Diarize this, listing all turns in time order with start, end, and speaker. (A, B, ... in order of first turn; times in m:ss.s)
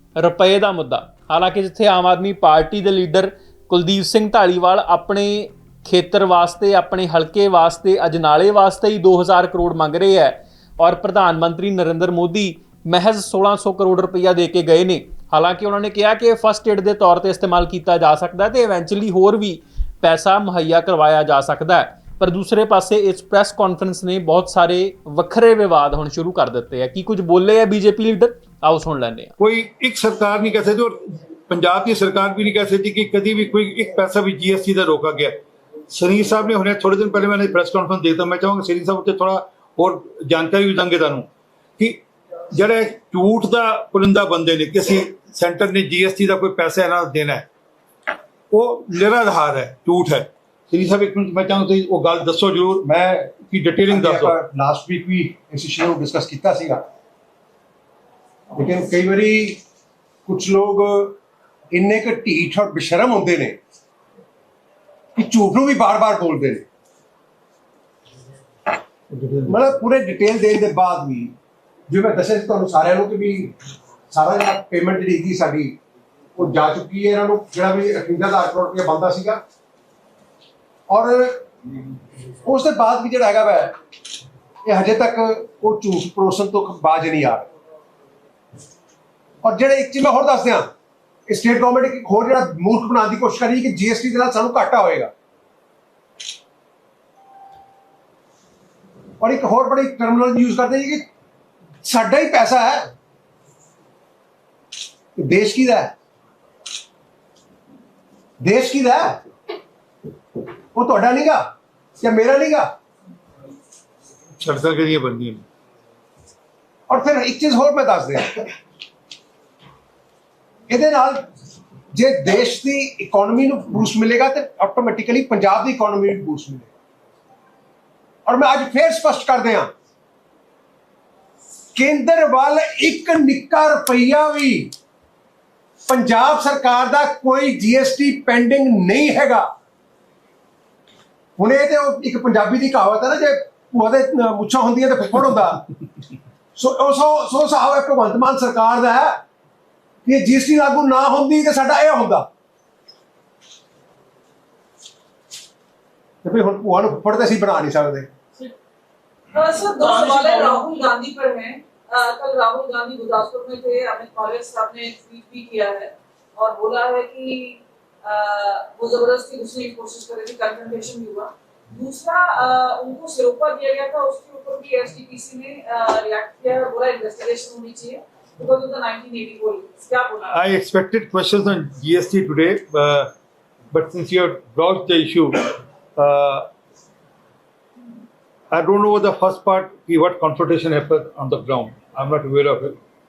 0:00.2-0:29.3 A
0:29.4-0:35.4 B
0:35.9-0:42.0 B
0:42.5-0:47.4 B
0:48.5-0:54.3 B
0:52.8-0:53.3 C
0:53.9-0:56.8 C
0:58.5-0:59.6 C
1:00.2-1:01.2 C
1:01.7-1:03.6 C
1:05.2-1:06.6 C
1:09.1-1:09.5 B
1:09.4-1:11.3 C
1:11.9-1:13.5 C
1:14.1-1:15.8 C
1:16.4-1:19.4 C
1:20.9-1:21.4 C
1:22.4-1:23.7 C
1:24.6-1:27.5 C
1:29.4-1:30.7 C
1:31.3-1:35.1 C
1:39.2-1:41.0 C
1:41.8-1:42.9 C
1:45.2-1:45.9 C
1:48.4-1:49.2 C
1:50.7-1:51.4 C
1:52.0-1:52.7 C
1:54.4-1:55.4 B
1:56.9-1:58.5 C
2:00.7-2:01.2 C
2:01.9-2:06.7 C
2:08.2-2:09.7 C
2:11.7-2:14.7 C
2:15.9-2:19.5 C
2:21.4-2:25.6 C
2:26.5-2:29.2 C
2:30.0-2:32.3 C
2:36.2-2:38.1 C
2:39.3-3:00.3 D
3:00.2-3:03.1 B
3:03.7-3:06.5 B
3:08.5-3:12.8 B